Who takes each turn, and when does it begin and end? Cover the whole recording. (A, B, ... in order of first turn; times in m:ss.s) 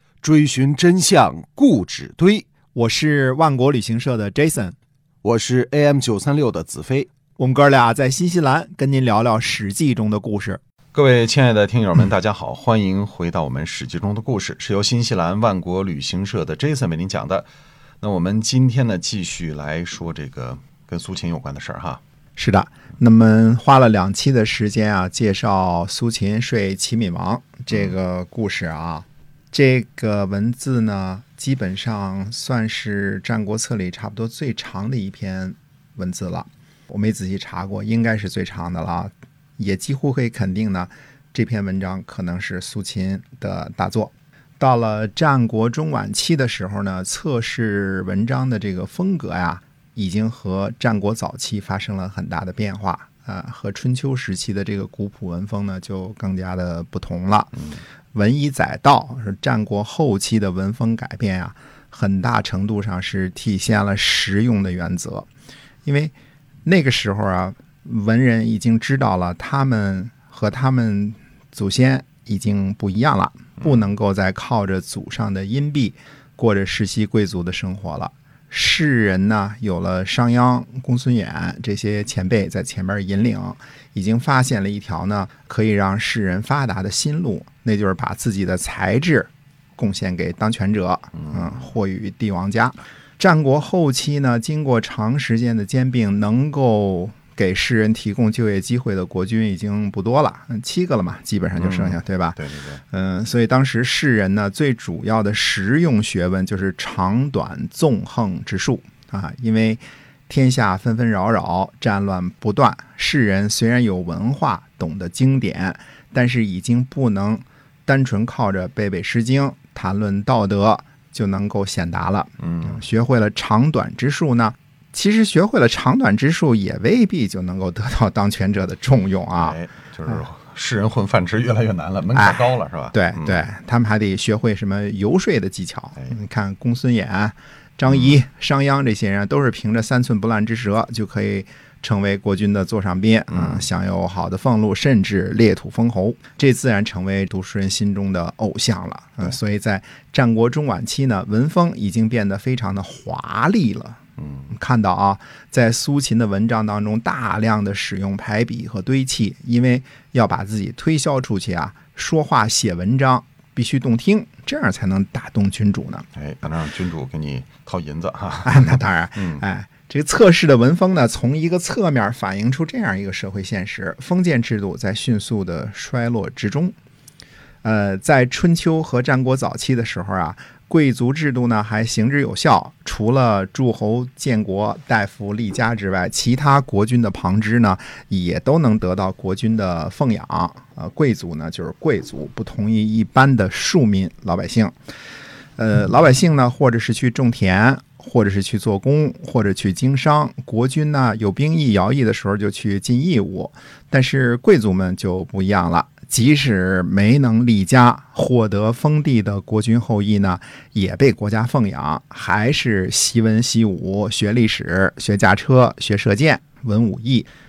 0:00.2-0:02.5 A
0:02.7-0:04.8 B
0:05.2-0:07.1 A
0:07.4-0:10.6 B
0:11.0-0:17.5 C
0:18.0-0:22.0 C
0:22.4-0:57.6 B
0:58.1-1:05.3 B
1:05.8-1:06.1 B
1:06.6-1:42.4 B
1:41.6-1:42.8 C
1:42.9-2:09.6 B
2:02.4-2:02.8 C
2:09.3-2:13.4 C
2:12.2-2:12.4 B
2:12.9-2:34.0 B
2:17.9-2:18.1 C
2:23.3-2:23.6 C
2:34.2-2:34.5 C
2:34.5-2:46.1 B
2:46.2-2:49.4 C
2:48.4-2:56.8 B
2:57.6-3:14.7 B
3:15.6-3:37.3 B